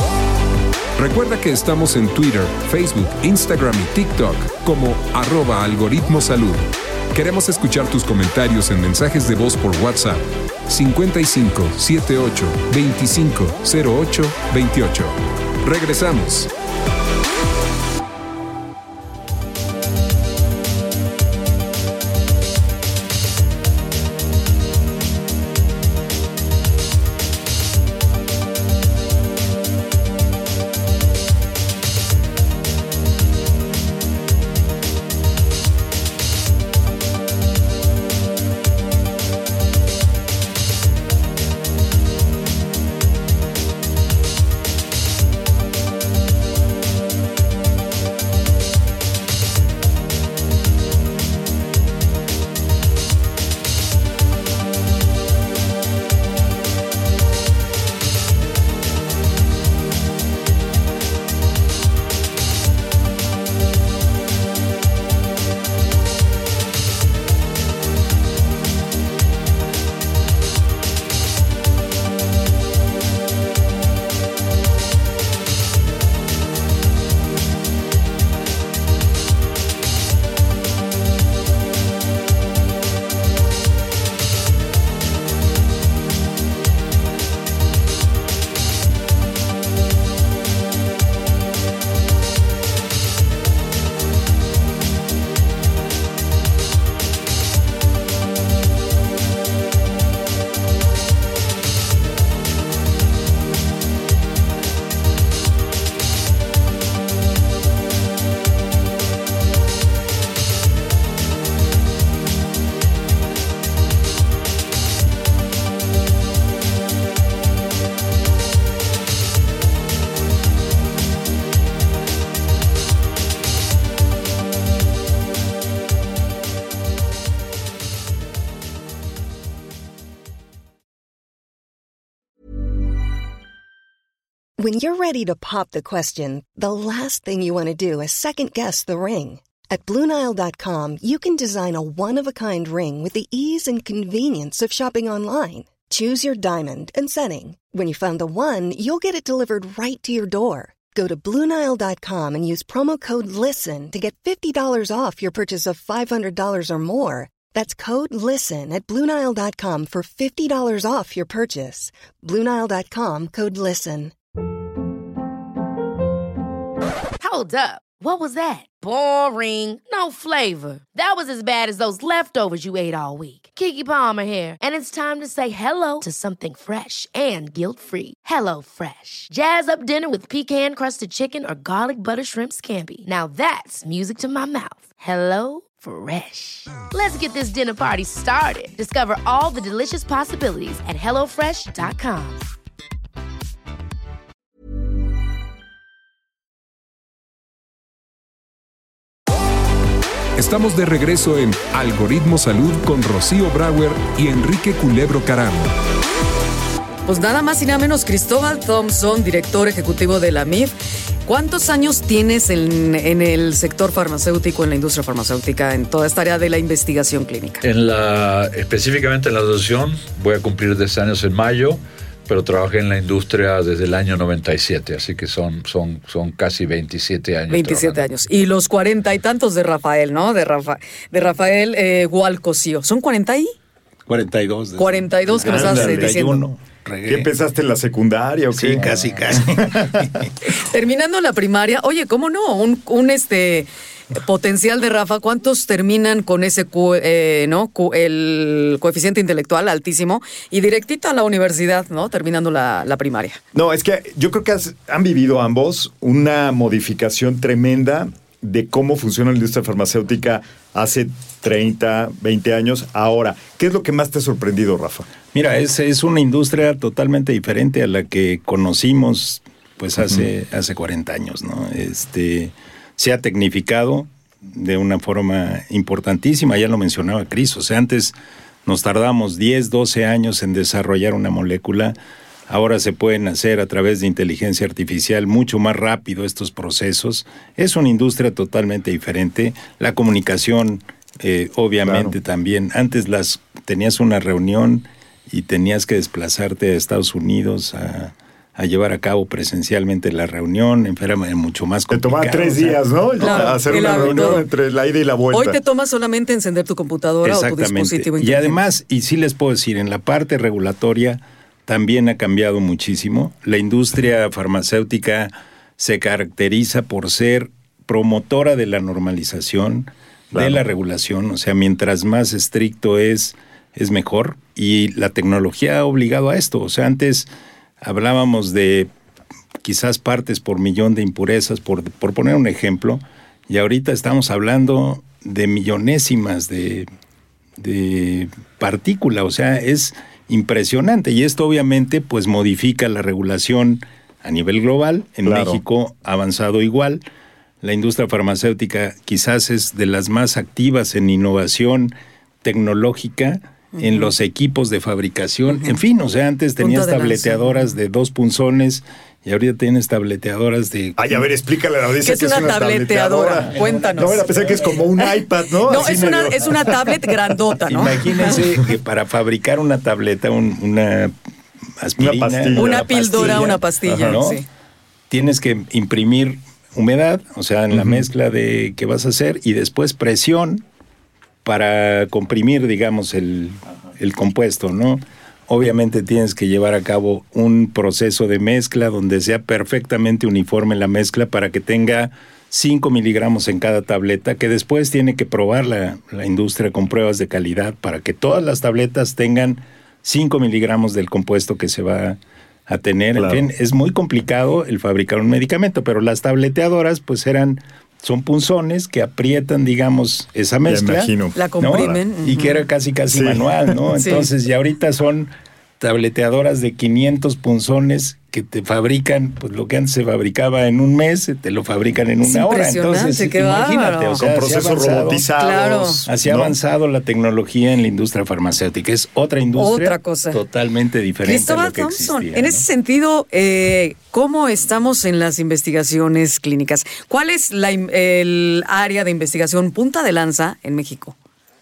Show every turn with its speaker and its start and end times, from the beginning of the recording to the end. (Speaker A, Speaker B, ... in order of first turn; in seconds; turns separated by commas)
Speaker A: 1.0-16.5, Speaker B: 134.6-164.1, Speaker C: 167.2-192.4, Speaker A: 200.4-205.7, Speaker D: 207.1-210.7, Speaker D: 211.2-217.6, Speaker E: 217.6-228.0, Speaker D: 227.5-233.5, Speaker F: 234.1-237.3, Speaker D: 234.8-236.4, Speaker G: 235.4-236.2, Speaker G: 237.1-240.3, Speaker F: 238.5-240.3, Speaker D: 240.5-253.4, Speaker G: 253.5-265.1, Speaker F: 265.3-282.0, Speaker F: 282.5-304.4, Speaker G: 291.8-292.1, Speaker G: 301.9-305.6, Speaker D: 303.2-304.5, Speaker D: 305.3-308.6, Speaker F: 307.2-327.3, Speaker G: 320.3-320.6, Speaker F: 327.8-328.9, Speaker F: 329.6-336.9, Speaker F: 337.6-347.0, Speaker G: 345.2-345.6, Speaker F: 347.6-361.1, Speaker D: 353.8-354.0, Speaker D: 356.6-357.7, Speaker G: 361.0-367.0, Speaker D: 362.0-365.1, Speaker F: 362.4-362.6, Speaker F: 363.2-364.9, Speaker D: 365.6-368.3, Speaker F: 365.7-366.9, Speaker F: 367.6-371.1, Speaker F: 371.8-374.4, Speaker G: 372.0-374.2, Speaker D: 372.5-374.4, Speaker F: 375.1-380.6, Speaker G: 377.7-378.0, Speaker F: 381.4-425.2, Speaker G: 403.1-403.4, Speaker G: 410.6-412.0, Speaker D: 411.3-412.6, Speaker G: 413.1-413.7, Speaker D: 413.9-414.2, Speaker D: 422.2-424.2, Speaker G: 424.2-426.6, Speaker D: 425.4-426.1, Speaker F: 426.1-432.6, Speaker D: 429.6-430.4, Speaker D: 431.2-441.1